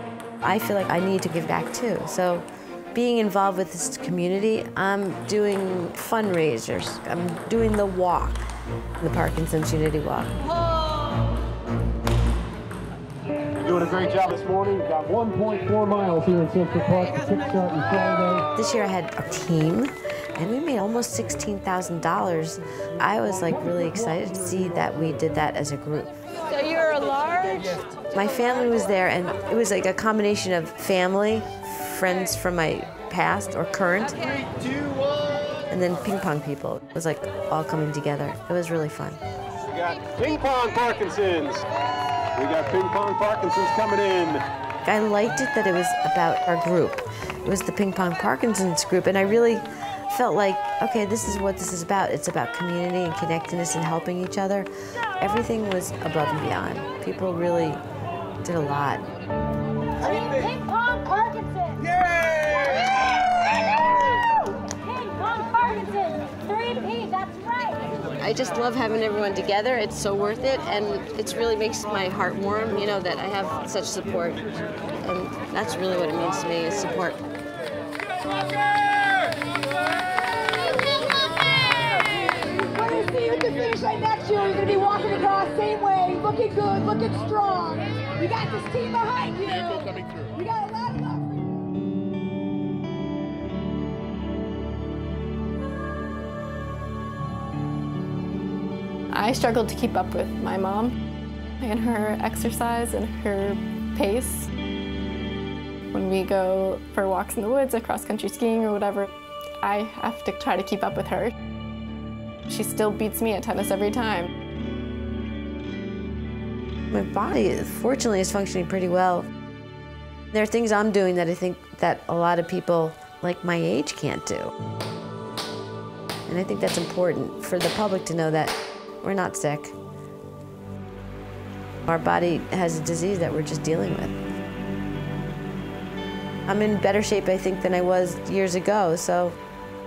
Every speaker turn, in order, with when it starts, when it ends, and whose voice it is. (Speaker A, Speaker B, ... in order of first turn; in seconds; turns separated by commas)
Speaker A: 0.4-8.4, Speaker A: 9.0-10.4, Speaker B: 13.6-18.4, Speaker A: 18.5-34.2, Speaker A: 35.7-39.2, Speaker B: 39.7-41.6, Speaker B: 42.4-44.4, Speaker A: 44.8-54.7, Speaker A: 55.2-57.8, Speaker A: 58.4-59.0, Speaker C: 60.0-61.8, Speaker C: 64.6-67.9, Speaker A: 68.1-74.4, Speaker A: 75.0-77.2, Speaker C: 80.6-91.4, Speaker D: 99.1-101.0, Speaker D: 101.6-104.5, Speaker D: 105.9-109.1, Speaker D: 109.6-111.3, Speaker D: 112.5-114.3, Speaker A: 116.9-119.3, Speaker A: 120.3-124.5, Speaker A: 126.3-129.7, Speaker A: 131.9-134.2, Speaker A: 136.5-139.4